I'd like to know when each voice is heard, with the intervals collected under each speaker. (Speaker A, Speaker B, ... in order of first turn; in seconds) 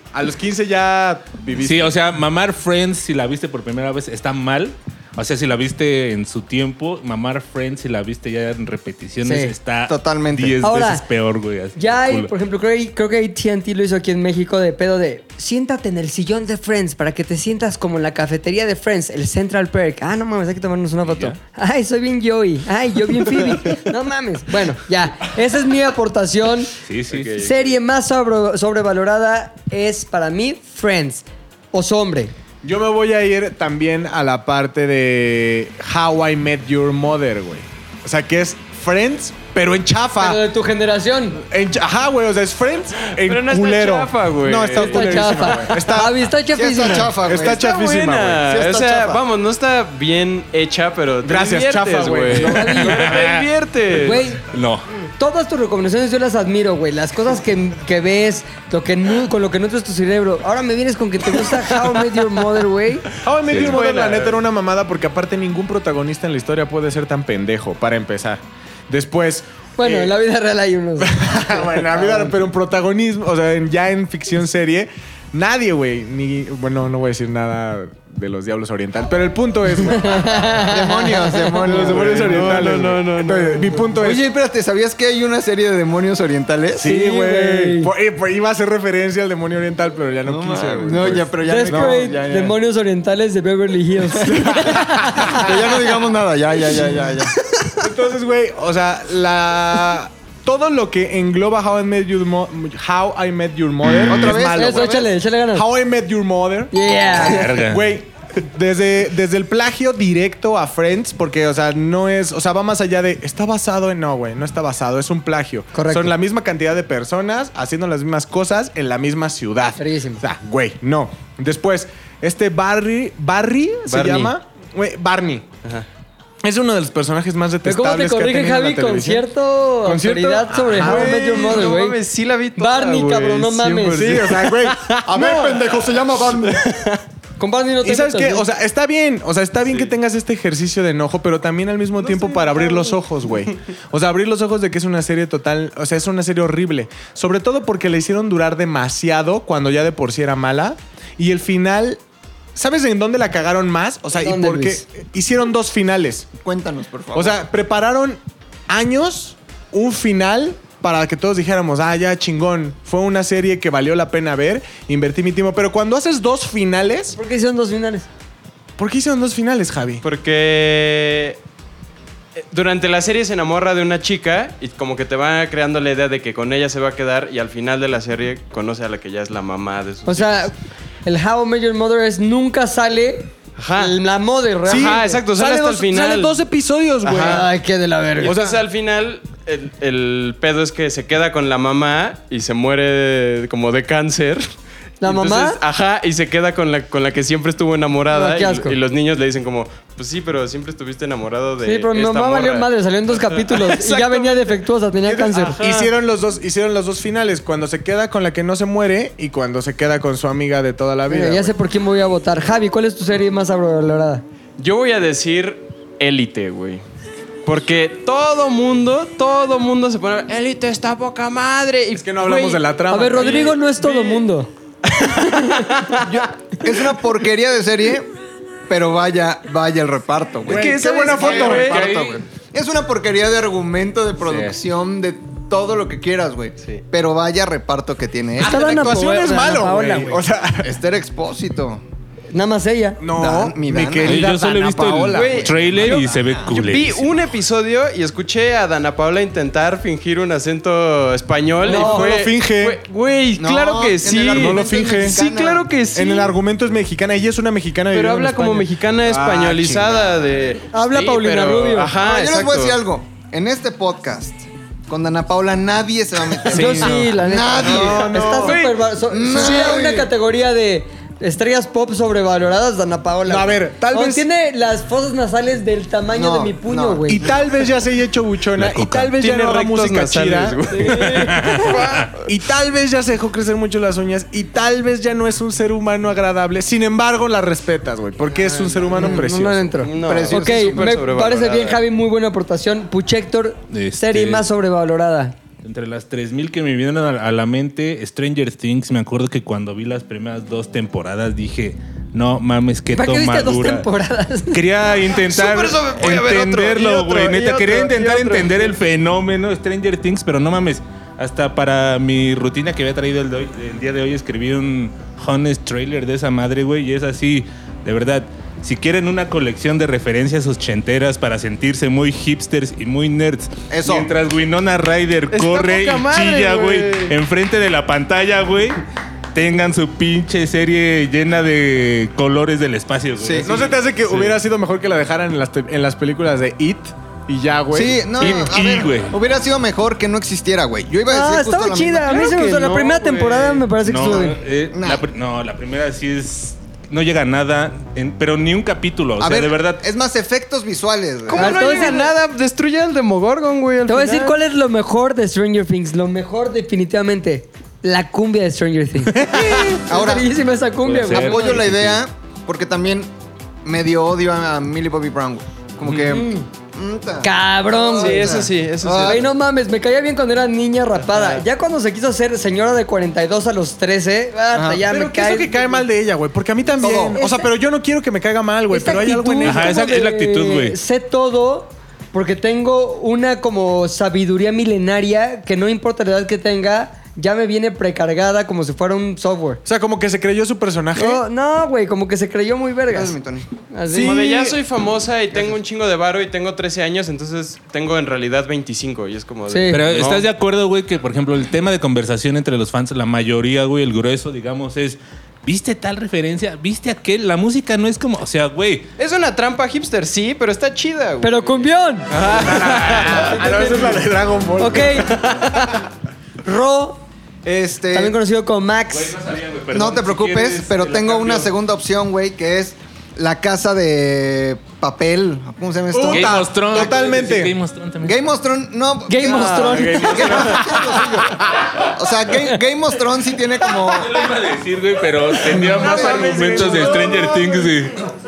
Speaker A: 0.1-1.9, 32.6-40.4, 41.4-46.2, 47.2-48.5, 51.2-52.8, 63.2-70.2, 71.0-80.5, 81.6-84.2, 86.8-92.1, 94.5-95.4, 97.8-125.5, 126.4-129.3, 129.8-131.7, 133.9-135.7, 137.8-152.0, 152.5-156.3, 157.1-167.2, 168.8-170.0, 184.7-187.4, 188.2-188.6, 203.9-204.3, 205.0-211.5, 221.9-223.6, 230.5-231.9, 238.4-240.7, 243.0-246.1, 251.6-252.8, 254.2-255.2, 255.9-259.9, 267.6-268.6, 273.2-274.2, 277.1-280.7, 282.2-289.9, 333.4-338.5, 359.1-359.8, 374.9-379.7, 389.6-391.2, 393.9-394.6, 412.2-415.3, 425.9-427.5, 429.6-431.1, 435.6-437.2
Speaker B: 1.6-12.3, 21.1-21.3, 26.9-27.3, 52.6-53.5, 54.5-54.9, 107.2-107.8, 231.5-232.2, 234.2-234.6, 244.0-247.1, 266.6-267.0, 278.6-279.1, 281.1-282.1, 293.7-294.4, 295.6-303.9, 304.5-328.8, 329.3-334.4, 338.2-339.1, 343.8-349.8, 360.9-362.0, 379.4-380.8, 399.7-408.9, 418.9-421.5, 426.1-428.2, 433.8-438.0
Speaker C: 9.2-9.5, 10.6-11.0, 11.8-26.7, 27.4-32.3, 40.2-41.4, 44.7-47.2, 52.4-53.1, 53.9-54.5, 55.2-63.1, 69.8-72.0, 80.0-81.6, 86.8-87.9, 91.5-95.8, 104.4-105.7, 106.7-107.5, 115.7-116.1, 119.8-120.2, 127.6-132.0, 132.6-134.2, 137.4-138.4, 154.1-154.8, 167.1-168.1, 180.1-180.5, 181.1-185.2, 187.1-188.4, 195.0-195.6, 198.1-198.8, 201.6-205.6, 211.1-214.2, 222.9-224.5, 225.1-226.0, 238.4-240.2, 242.3-243.0, 251.6-252.1, 260.7-261.9, 266.5-277.3, 280.7-281.7, 288.9-295.4, 302.9-304.6, 341.1-344.4, 351.3-352.1, 353.9-361.6, 366.0-366.4, 367.2-368.4, 369.0-375.8, 377.1-377.5, 378.7-389.6, 390.9-393.1, 393.7-394.2, 399.5-399.8, 411.2-412.2, 414.6-415.4, 416.4-417.0, 417.9-419.2, 429.1-430.4
Speaker D: 9.9-10.6, 46.5-47.7, 48.5-49.2, 80.7-82.7, 83.9-86.9, 90.2-92.5, 94.2-97.5, 103.9-105.1, 135.1-136.7, 156.4-157.4, 226.0-228.1, 228.7-238.7, 240.6-241.8, 243.1-244.3, 245.2-246.5, 253.4-255.7, 262.0-268.5, 269.1-270.1, 276.1-277.0, 289.9-291.0, 323.7-324.1, 333.2-333.5, 337.7-342.3, 344.7-345.0, 349.2-351.9, 359.9-360.3, 361.1-363.1, 363.6-369.2, 374.5-374.9, 376.8-377.2, 392.9-393.5, 417.4-418.1, 419.7-426.4, 428.0-431.4, 431.9-434.3, 435.5-437.0
Speaker E: 27.1-27.7, 43.1-45.4, 47.5-54.3, 63.5-64.3, 81.7-83.8, 123.9-124.3, 130.5-135.1, 136.6-137.0, 142.1-142.9, 170.0-171.4, 172.4-180.5, 183.6-184.0, 184.7-186.3, 187.0-187.5, 188.2-194.5, 195.0-204.2, 205.3-205.9, 214.6-216.8, 217.4-222.6, 223.2-224.2, 225.7-226.1, 230.5-232.0, 245.1-256.3, 257.9-262.8, 268.4-268.9, 279.1-282.2, 288.4-291.8, 305.2-308.8, 325.3-327.1, 342.1-343.8, 351.3-354.4, 368.0-369.3, 371.1-371.4, 393.9-400.3, 409.0-411.6, 412.1-413.9, 415.3-415.7, 429.2-429.8, 435.6-437.4